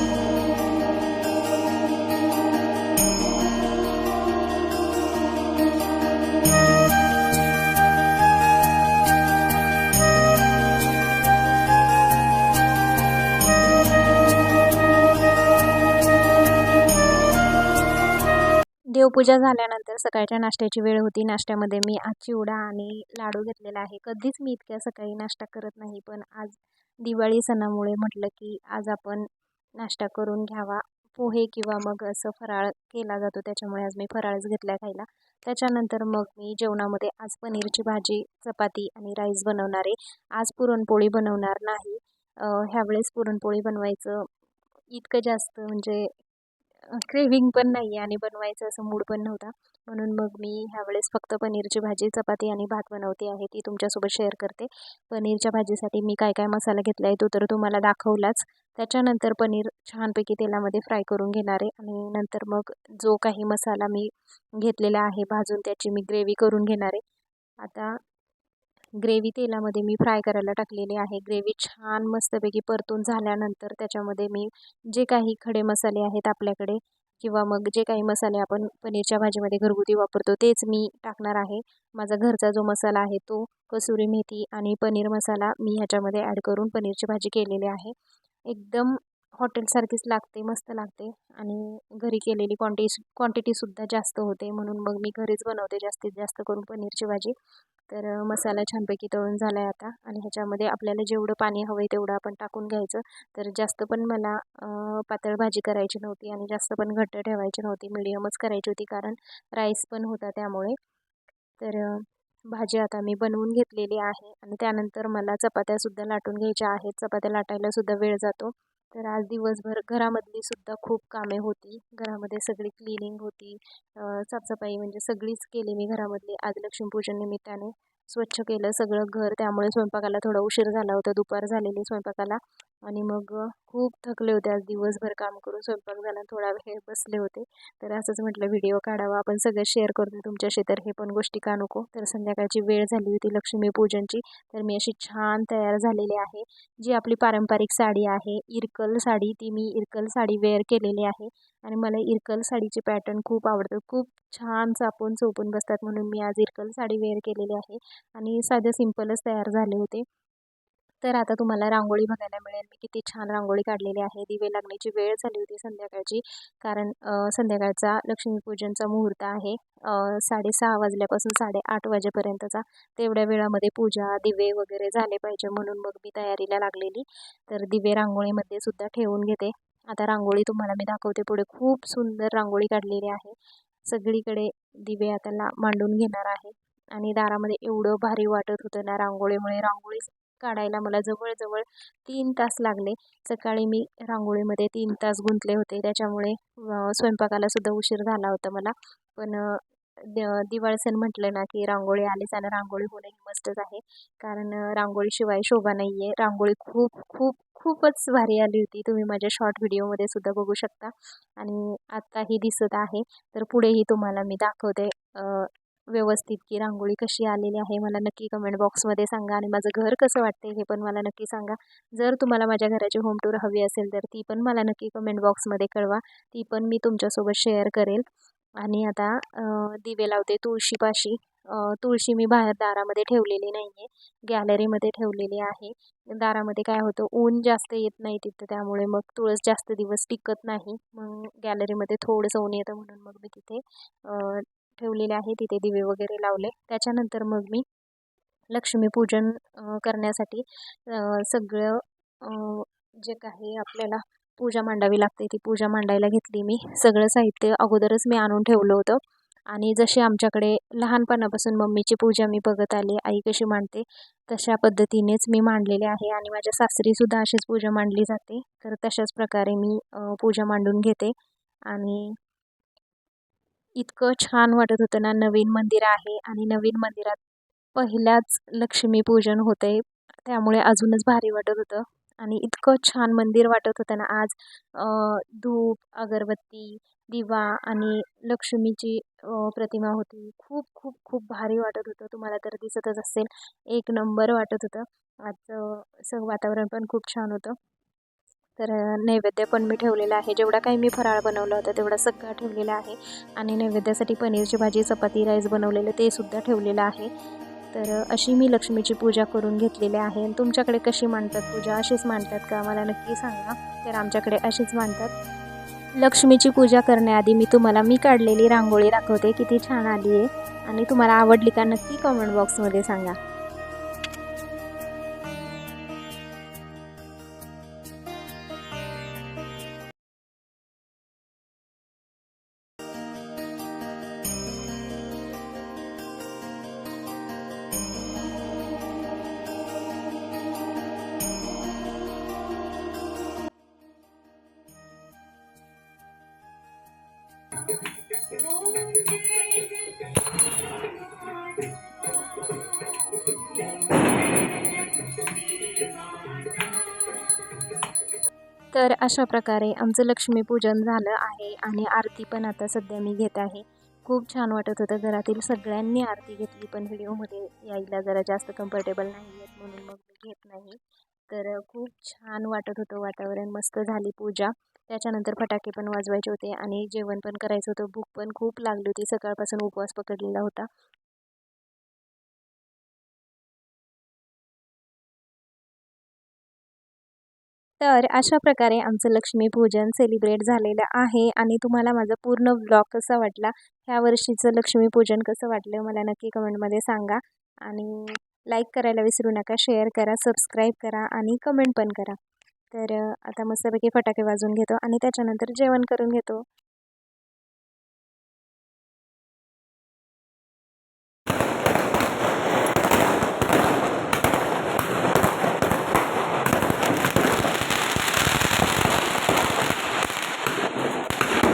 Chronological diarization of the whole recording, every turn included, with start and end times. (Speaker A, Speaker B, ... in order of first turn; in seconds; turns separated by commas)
Speaker A: 18.9-44.3, Speaker A: 44.9-46.1, Speaker A: 46.9-67.0, Speaker A: 67.6-68.0, Speaker A: 69.0-87.9, Speaker A: 88.5-97.3, Speaker A: 97.9-110.8, Speaker A: 111.6-160.0, Speaker A: 161.0-228.0, Speaker A: 228.6-247.6, Speaker A: 248.5-271.1, Speaker A: 271.7-272.1, Speaker A: 273.8-277.2, Speaker A: 277.7-297.6, Speaker A: 298.6-307.1, Speaker A: 307.7-315.1, Speaker A: 316.0-323.1, Speaker A: 358.7-380.7, Speaker A: 387.8-402.2, Speaker A: 402.7-406.4